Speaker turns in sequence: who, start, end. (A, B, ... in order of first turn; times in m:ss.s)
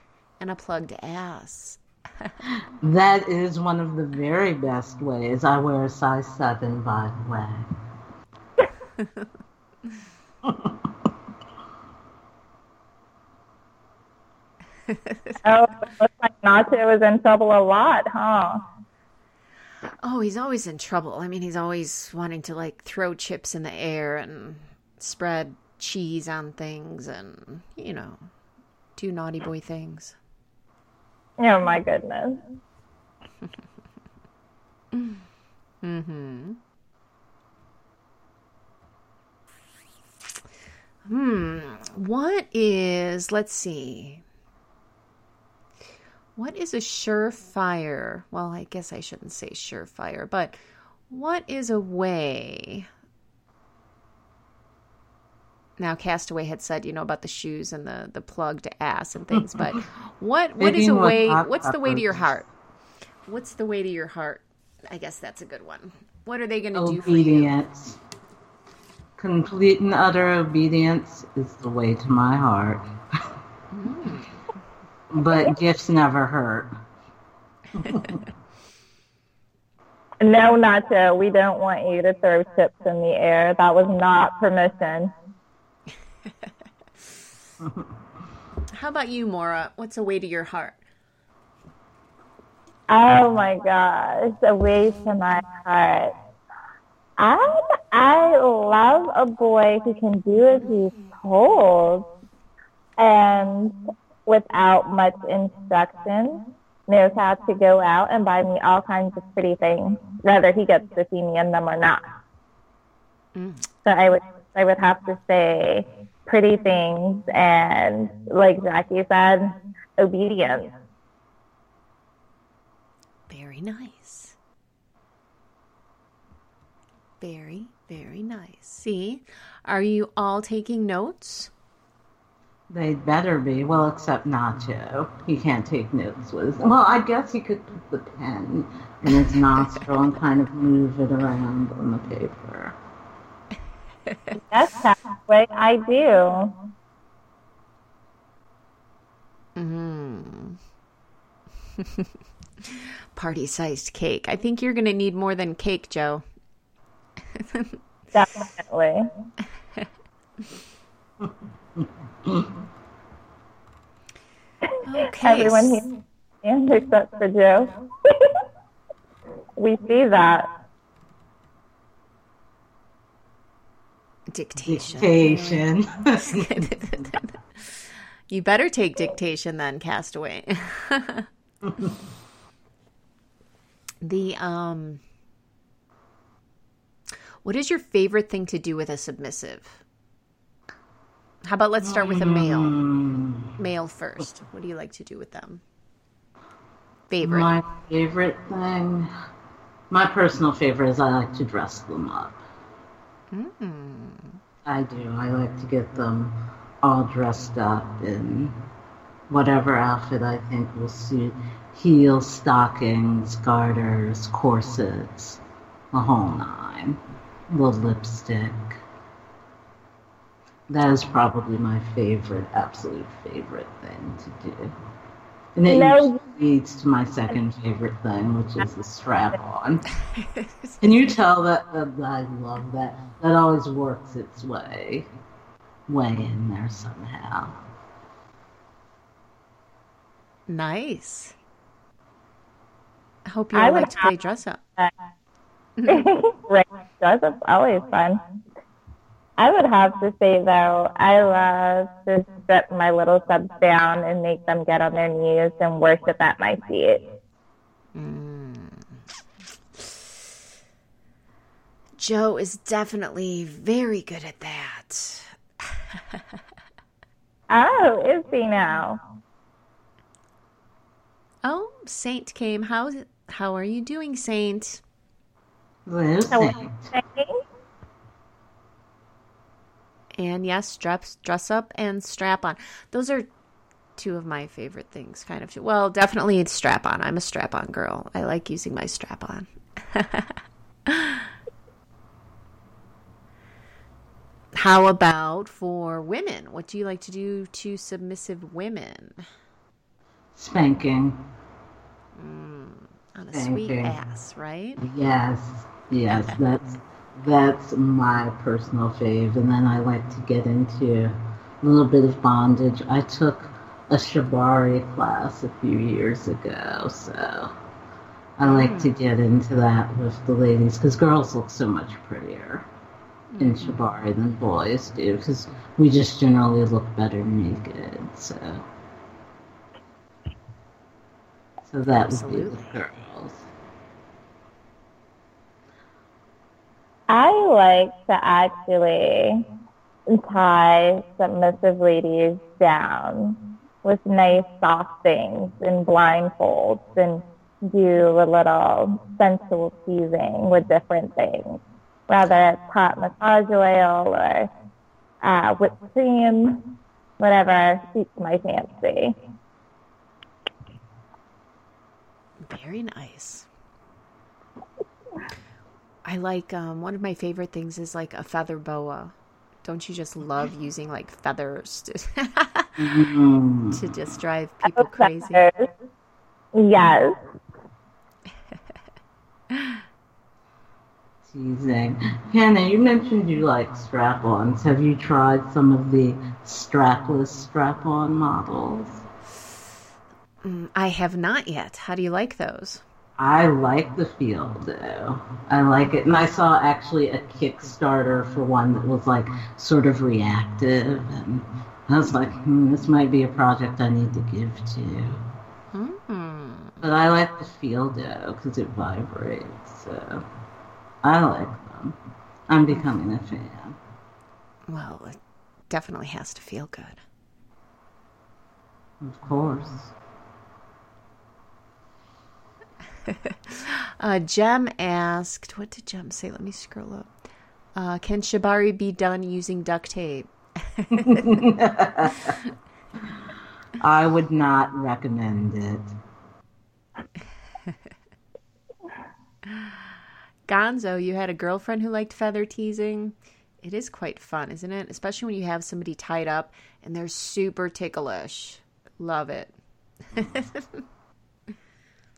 0:00.4-0:02.3 A
0:02.5-0:07.7 B
0:09.0-0:09.3 A
0:10.4-0:10.8 B
0:14.9-0:15.4 A
0:15.4-0:18.6 C
0:20.0-0:28.3 A
0:29.0-0:30.2 A
0:31.4-0:32.4 C
0:34.9-0:35.2 A
0:35.8-0:36.6 A
0:41.1-0:44.2 A
0:46.4-0:52.9 A
0:55.8-1:02.5 A
0:59.6-0:59.8 B
1:00.6-1:02.3 B
1:03.3-1:07.5 A
1:06.7-1:08.0 B
1:09.2-1:12.8 B
1:13.7-1:14.3 A
1:15.1-1:16.7 B
1:17.8-1:18.2 B
1:20.2-1:25.1 C
1:28.8-1:30.8 A
1:32.9-1:36.1 C
1:37.2-1:42.1 C
1:43.0-1:52.1 C
1:53.4-1:53.7 A
1:53.8-2:00.7 C
2:03.3-2:04.4 A
2:07.2-2:11.5 A
2:12.7-2:22.8 B
2:24.1-2:24.4 A
2:24.4-2:26.5 C
2:29.6-2:30.6 A
2:31.8-2:32.1 A
2:32.6-2:36.2 A
2:37.3-2:37.8 A
2:38.1-2:39.1 C
2:41.2-2:42.5 B
2:44.8-2:45.8 A
2:45.2-2:45.9 C
2:46.4-2:48.4 C
2:49.6-2:50.5 C
2:54.3-3:01.3 A
2:54.6-2:57.1 B
3:01.6-3:01.9 B
3:04.0-3:05.0 A
3:07.4-3:09.8 A
3:11.4-3:12.8 A
3:11.8-3:13.5 B
3:13.6-3:15.6 A
3:17.1-3:17.6 A
3:17.2-3:19.1 B
3:19.9-3:22.4 B
3:23.3-3:24.4 A
3:24.6-3:28.6 B
3:29.3-3:37.0 B
3:37.5-3:38.8 B
3:40.7-3:44.7 B
3:45.6-3:49.8 B
3:45.7-3:46.2 C
3:50.1-3:51.0 A
3:50.8-3:55.1 B
3:55.9-3:57.6 B
4:00.5-4:01.4 A
4:03.3-4:04.6 A
4:03.5-4:04.1 C
4:05.8-4:06.1 A
4:05.9-4:08.2 C
4:09.4-4:17.0 C
4:18.0-4:18.9 A
4:22.0-4:25.4 A
4:27.5-4:29.0 C
4:31.4-4:34.8 A
4:35.9-4:36.9 B
4:36.3-4:37.4 C
4:40.2-4:43.3 A
4:44.0-4:51.3 A
4:54.5-4:59.2 A
5:00.4-5:01.2 B
5:02.2-5:04.8 A
5:03.3-5:03.9 B
5:04.8-5:17.5 B
5:18.4-5:22.7 B
5:18.4-5:19.0 A
5:23.3-5:23.8 A
5:23.4-5:28.6 B
5:31.7-5:33.4 B
5:32.0-5:32.8 A
5:37.1-5:39.5 C
5:40.1-5:54.5 C
5:55.2-5:56.6 C
5:57.2-5:59.2 C
6:02.4-6:03.5 A
6:06.0-6:13.0 A
6:12.8-6:13.9 B
6:13.7-6:15.4 A
6:14.8-6:15.7 C
6:16.5-6:17.2 C
6:19.5-6:19.8 A
6:21.2-6:29.0 B
6:30.4-6:32.8 A
6:33.2-6:45.2 B
6:45.7-6:46.8 A
6:46.8-6:50.2 B
6:51.0-6:52.0 B
6:52.5-6:53.8 B
6:54.7-6:55.2 A
6:55.7-6:57.0 A
6:59.0-6:59.9 B
7:03.1-7:07.1 A
7:07.8-7:11.4 A
7:10.9-7:12.4 B
7:13.8-7:15.9 B
7:19.5-7:19.8 A
7:20.5-7:29.5 A
7:30.1-7:30.8 A